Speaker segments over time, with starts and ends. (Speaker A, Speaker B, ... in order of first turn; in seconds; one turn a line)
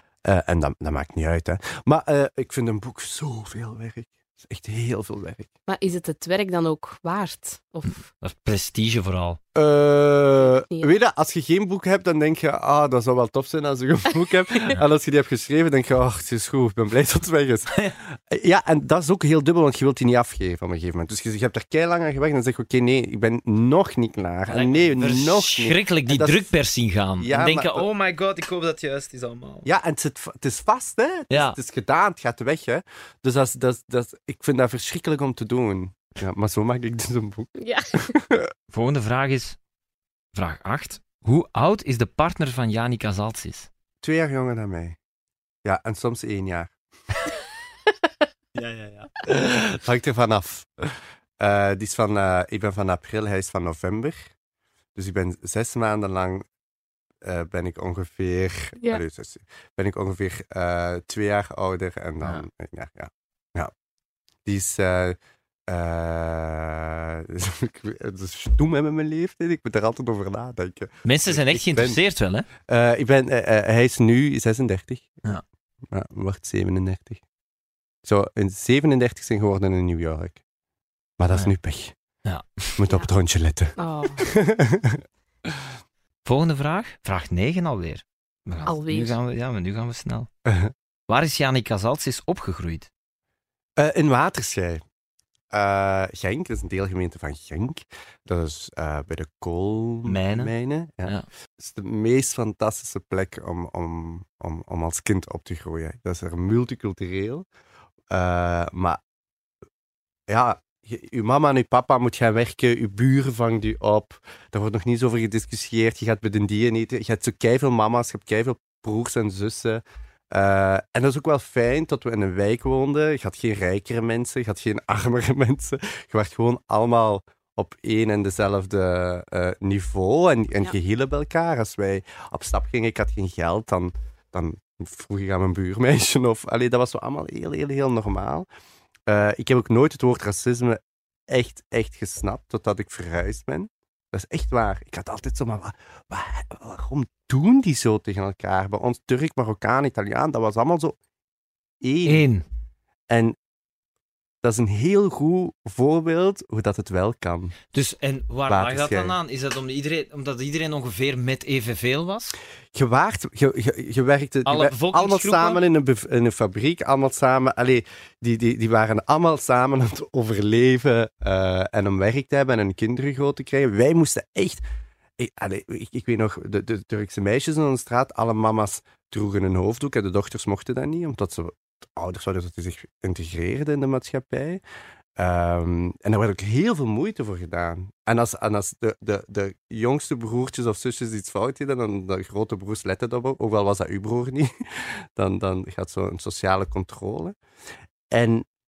Speaker A: 0.2-5.5
Speaker B: 5.7-8.1
Speaker C: 8.2-9.4
Speaker A: 9.6-26.5
Speaker B: 10.5-10.9
Speaker C: 24.5-29.7
Speaker A: 27.2-27.9
Speaker A: 29.6-38.5
Speaker C: 31.3-31.6
Speaker B: 37.6-38.1
Speaker C: 38.7-39.6
Speaker C: 40.4-43.7
Speaker A: 44.0-45.0
Speaker A: 45.6-46.7
Speaker C: 48.5-49.1
Speaker A: 49.3-54.3
Speaker A: 55.0-56.5
Speaker A: 57.2-63.7
Speaker A: 64.5-65.2
Speaker A: 65.7-72.0
Speaker C: 71.0-72.5
Speaker A: 72.7-75.2
Speaker A: 75.9-77.2
Speaker A: 78.0-80.4
Speaker A: 81.2-82.0
Speaker C: 82.2-82.8
Speaker A: 82.8-85.6
Speaker B: 83.8-84.2
Speaker C: 86.2-90.3
Speaker B: 88.7-89.2
Speaker A: 90.5-90.7
Speaker C: 91.1-92.9
Speaker A: 93.8-94.8
Speaker A: 95.5-107.5
Speaker C: 100.1-100.5
Speaker A: 108.1-109.0
Speaker A: 110.3-138.5
Speaker A: 139.1-151.0
Speaker A: 151.8-152.2
Speaker C: 152.1-152.4
Speaker A: 153.1-153.4
Speaker A: 154.4-157.6
Speaker C: 157.7-162.3
Speaker A: 158.5-159.2
Speaker A: 162.7-174.6
Speaker C: 164.5-165.6
Speaker A: 175.2-184.6
Speaker A: 185.2-197.4
Speaker A: 198.1-198.5